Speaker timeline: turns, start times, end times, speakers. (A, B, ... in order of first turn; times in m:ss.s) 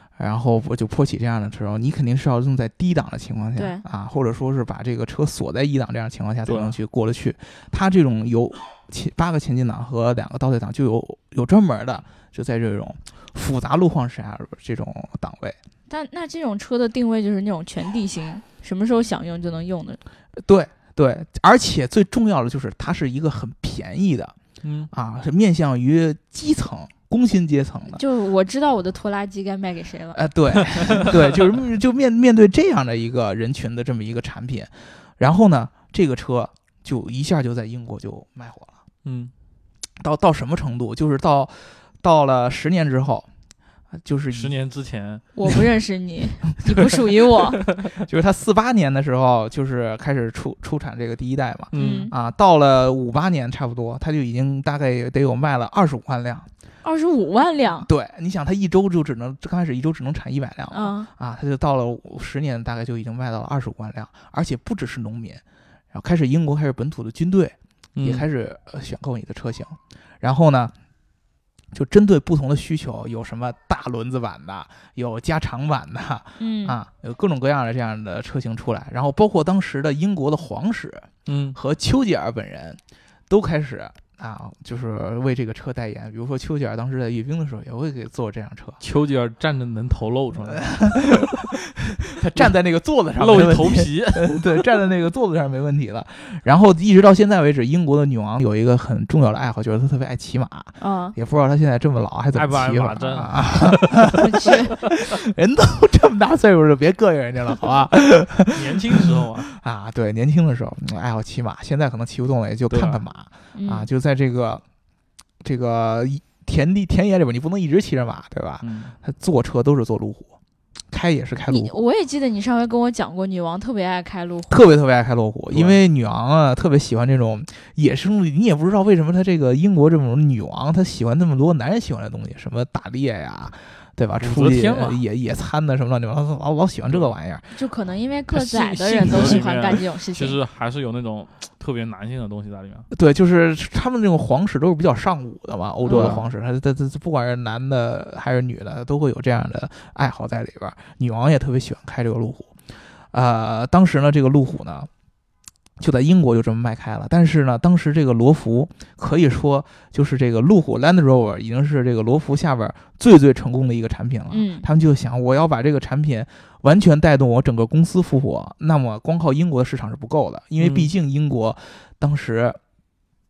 0:00.2-0:15.6 A
0:03.6-0:03.8 B
0:06.5-0:06.8 C
0:15.9-0:20.0 B
0:20.4-0:24.4 A
0:24.6-0:24.9 C
0:24.9-0:28.0 A
0:27.9-0:30.2 B
0:30.1-0:38.8 A
0:30.8-0:31.1 C
0:39.0-0:39.3 C
0:40.0-0:43.3 A
0:44.0-0:44.6 A
0:44.3-0:45.2 C
0:45.4-0:47.6 B
0:48.0-0:56.5 A
0:51.7-0:52.1 C
0:51.8-0:52.1 B
0:56.8-0:57.9 B
0:57.8-1:10.7 A
1:00.7-1:01.1 B
1:08.0-1:08.2 C
1:11.7-1:28.8 A
1:16.4-1:16.8 B
1:21.3-1:21.6 C
1:28.8-1:31.4 C
1:30.5-1:54.6 A
1:33.2-1:34.6 C
1:40.8-1:41.2 B
1:42.3-1:44.5 C
1:44.2-1:44.8 B
1:48.5-1:49.5 C
1:52.7-1:53.0 C
1:53.6-1:53.9 B
1:55.4-2:00.3 A
1:58.6-1:59.0 C
2:00.9-2:01.8 A
2:01.5-2:04.6 B
2:04.5-2:17.5 A
2:05.5-2:05.8 C
2:14.2-2:15.0 C
2:17.5-2:20.4 B
2:18.3-2:22.9 C
2:19.1-2:19.4 A
2:22.9-2:32.5 A
2:25.8-2:26.2 B
2:25.9-2:26.2 C
2:33.1-2:34.9 A
2:35.8-2:52.6 A
2:44.3-2:44.7 B
2:50.6-2:50.9 C